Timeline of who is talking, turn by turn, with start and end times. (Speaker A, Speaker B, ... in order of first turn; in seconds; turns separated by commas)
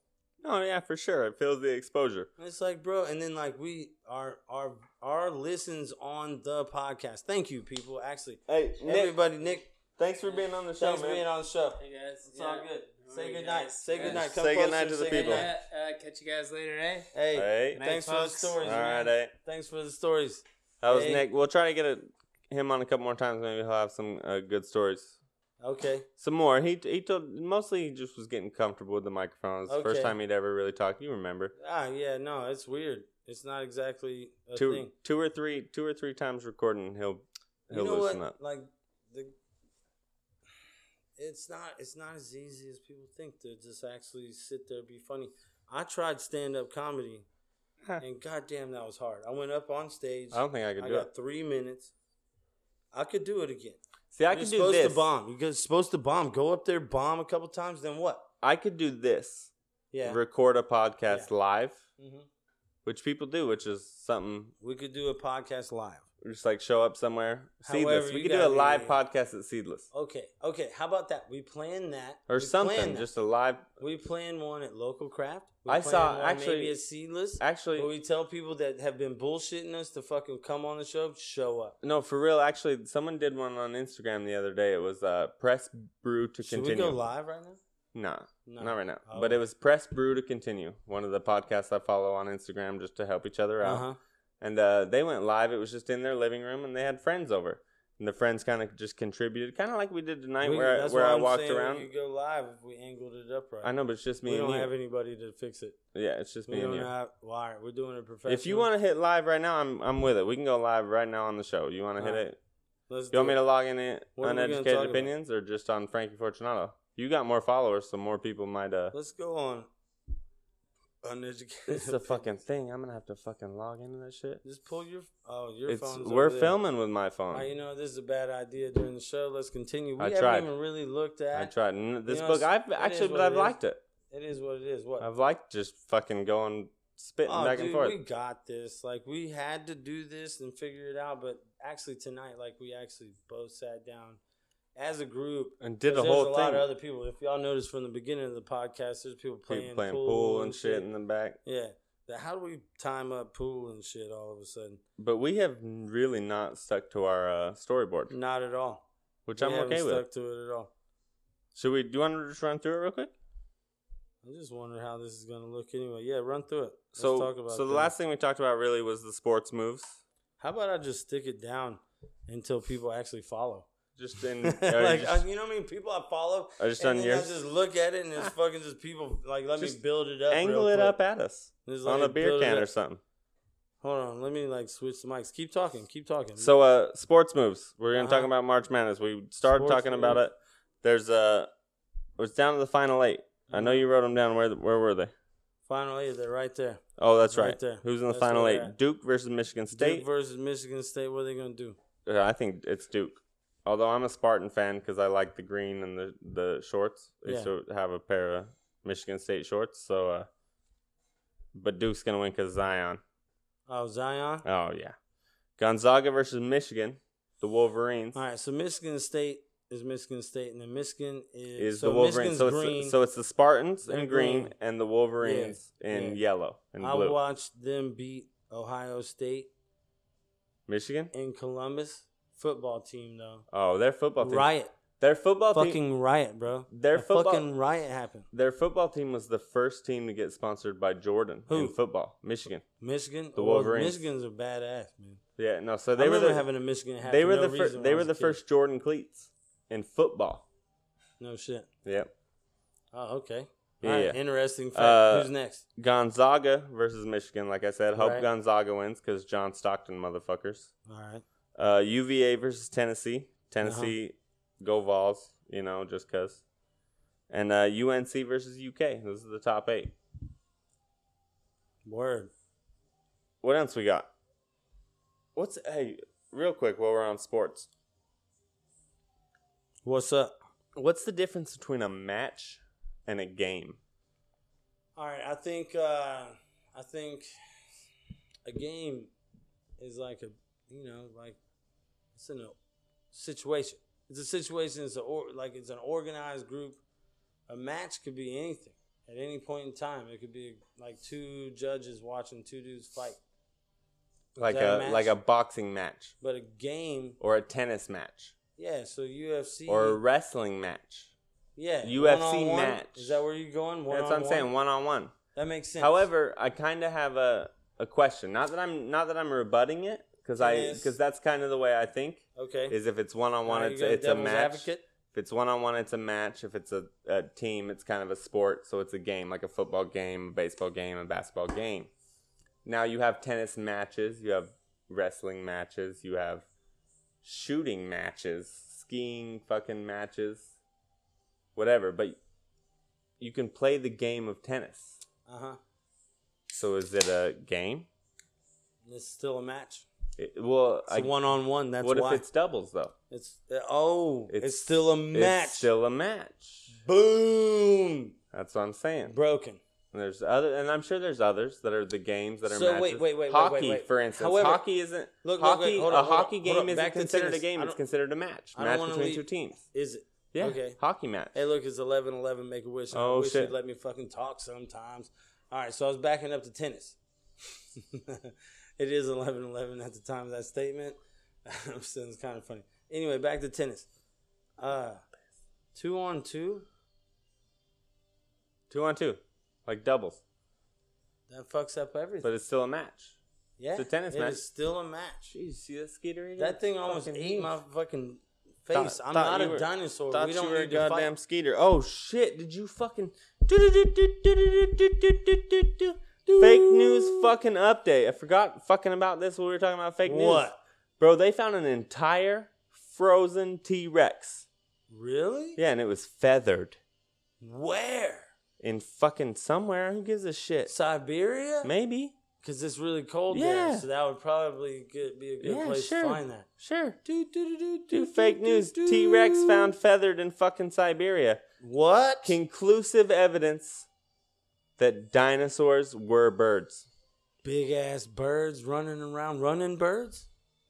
Speaker A: 0.4-2.3, Speaker B: 2.4-9.7, Speaker A: 8.5-9.2, Speaker A: 10.0-11.2, Speaker B: 10.8-15.5, Speaker C: 11.8-14.3, Speaker A: 14.0-15.5, Speaker C: 15.0-17.1, Speaker B: 17.1-21.2, Speaker A: 17.3-17.8, Speaker C: 17.8-18.6, Speaker A: 18.6-19.3, Speaker A: 20.8-25.2, Speaker B: 25.6-26.1, Speaker A: 26.2-31.5, Speaker B: 29.7-30.2, Speaker B: 31.6-34.9, Speaker A: 34.6-38.3, Speaker B: 37.7-39.3, Speaker B: 41.2-47.3, Speaker B: 48.0-51.9, Speaker A: 50.3-51.1, Speaker B: 52.9-53.8, Speaker A: 54.1-55.0, Speaker B: 54.3-58.3, Speaker A: 58.4-59.5, Speaker B: 59.9-60.2, Speaker A: 60.0-61.8, Speaker B: 62.0-62.3, Speaker A: 62.9-64.5, Speaker B: 64.6-66.1, Speaker A: 66.2-69.9, Speaker B: 67.6-69.0, Speaker B: 69.9-73.1, Speaker A: 72.3-73.7, Speaker B: 73.8-81.8, Speaker A: 75.7-76.8, Speaker A: 77.4-77.9, Speaker A: 81.8-87.0, Speaker B: 86.4-87.6, Speaker A: 87.9-93.8, Speaker B: 88.5-89.4, Speaker B: 93.6-94.0, Speaker A: 94.4-101.9, Speaker B: 100.4-103.7, Speaker A: 103.6-104.7, Speaker B: 104.2-105.8, Speaker A: 105.9-106.9, Speaker B: 106.5-108.7, Speaker A: 108.3-112.4, Speaker B: 112.0-112.2, Speaker B: 112.9-113.4, Speaker A: 113.1-118.9, Speaker B: 114.2-115.1, Speaker B: 118.9-119.7, Speaker B: 121.0-122.2, Speaker A: 121.7-124.4, Speaker B: 124.4-126.6, Speaker A: 125.7-127.5, Speaker B: 127.3-131.5, Speaker A: 130.0-130.5, Speaker A: 131.3-133.8, Speaker B: 132.1-133.6, Speaker B: 134.1-135.1, Speaker A: 135.0-138.0, Speaker B: 137.3-144.2, Speaker B: 144.8-150.9, Speaker A: 145.6-146.7, Speaker A: 149.5-151.4, Speaker B: 151.4-154.8, Speaker A: 155.0-158.1, Speaker B: 158.1-158.8, Speaker A: 159.3-160.0, Speaker B: 159.4-160.7, Speaker A: 161.6-163.1, Speaker B: 164.2-167.9, Speaker A: 167.0-170.0, Speaker B: 170.4-173.7, Speaker A: 174.0-175.2, Speaker B: 174.2-181.0, Speaker A: 176.6-177.4, Speaker A: 180.3-183.0, Speaker B: 181.7-182.7, Speaker B: 183.8-186.5, Speaker A: 186.4-191.5, Speaker B: 187.9-188.3, Speaker B: 189.5-190.2, Speaker A: 192.2-195.1, Speaker B: 193.5-193.8, Speaker B: 195.7-198.7, Speaker A: 197.0-200.1, Speaker B: 199.7-201.8, Speaker A: 202.1-210.3, Speaker B: 207.2-207.5, Speaker A: 211.5-213.0, Speaker B: 213.7-214.4, Speaker A: 214.4-215.0, Speaker A: 215.6-218.2, Speaker B: 218.1-223.0, Speaker A: 221.6-227.2, Speaker B: 223.9-224.5, Speaker B: 225.2-226.2, Speaker B: 226.8-229.5, Speaker A: 230.7-231.1, Speaker B: 231.1-233.4, Speaker A: 233.5-234.5, Speaker B: 234.2-234.7, Speaker A: 235.0-235.8, Speaker B: 235.5-238.3, Speaker A: 236.7-237.5, Speaker A: 238.3-242.6, Speaker B: 241.5-241.8, Speaker B: 242.8-245.2, Speaker A: 243.3-244.0, Speaker A: 245.4-246.5, Speaker B: 245.9-248.4, Speaker A: 247.0-250.5, Speaker B: 251.2-251.7, Speaker A: 251.8-252.1, Speaker B: 252.9-255.6, Speaker A: 253.8-254.2, Speaker A: 254.7-260.7, Speaker B: 257.9-258.3, Speaker B: 260.9-261.2, Speaker A: 261.6-266.4, Speaker B: 263.6-263.9, Speaker A: 267.3-270.0, Speaker B: 271.9-272.3, Speaker A: 273.4-274.1, Speaker A: 275.4-277.7, Speaker B: 279.8-280.3, Speaker A: 280.8-283.8, Speaker B: 285.0-287.3, Speaker B: 288.5-289.1, Speaker B: 289.8-291.4, Speaker B: 292.1-292.6, Speaker B: 293.1-296.8, Speaker B: 297.5-303.2, Speaker A: 304.4-306.1, Speaker B: 304.4-305.2, Speaker B: 306.2-307.2, Speaker A: 307.2-308.3, Speaker B: 308.6-310.0, Speaker A: 309.7-311.1, Speaker B: 311.6-314.5, Speaker A: 311.8-313.2, Speaker A: 313.9-315.1, Speaker B: 315.4-316.0, Speaker A: 315.8-331.9, Speaker B: 320.4-320.9, Speaker B: 322.4-322.8, Speaker B: 323.4-324.8, Speaker A: 332.6-336.5, Speaker A: 337.2-340.5, Speaker A: 341.6-342.2, Speaker A: 343.2-345.0, Speaker B: 345.3-345.6, Speaker A: 346.5-347.9, Speaker B: 348.8-349.9, Speaker A: 350.2-351.1, Speaker B: 350.9-352.2, Speaker A: 351.8-352.9, Speaker B: 353.1-355.7, Speaker A: 354.3-356.7, Speaker B: 356.7-358.1, Speaker A: 358.3-359.2, Speaker B: 359.0-359.6, Speaker A: 359.9-369.6, Speaker B: 362.5-364.6, Speaker B: 365.2-367.8, Speaker B: 368.5-370.8, Speaker A: 370.3-371.4, Speaker B: 371.3-377.0, Speaker A: 372.9-373.5, Speaker B: 377.6-383.9, Speaker B: 384.6-385.0, Speaker B: 385.8-386.7, Speaker A: 388.7-390.2, Speaker B: 391.3-392.3, Speaker A: 392.2-393.2, Speaker B: 393.6-395.3, Speaker A: 393.8-394.4, Speaker A: 395.3-397.6, Speaker B: 396.4-401.1, Speaker A: 398.7-410.4, Speaker B: 406.2-407.3, Speaker B: 410.1-410.6, Speaker A: 411.0-414.5, Speaker B: 414.9-415.6, Speaker A: 415.6-416.8, Speaker B: 417.4-418.3, Speaker A: 418.6-420.7, Speaker B: 420.7-421.7, Speaker A: 421.6-422.2, Speaker B: 422.4-426.5, Speaker A: 423.3-423.9, Speaker A: 425.4-427.0, Speaker B: 427.1-429.7, Speaker A: 427.9-431.4, Speaker B: 431.6-432.4, Speaker A: 432.2-433.9, Speaker A: 434.8-436.9, Speaker B: 437.4-440.3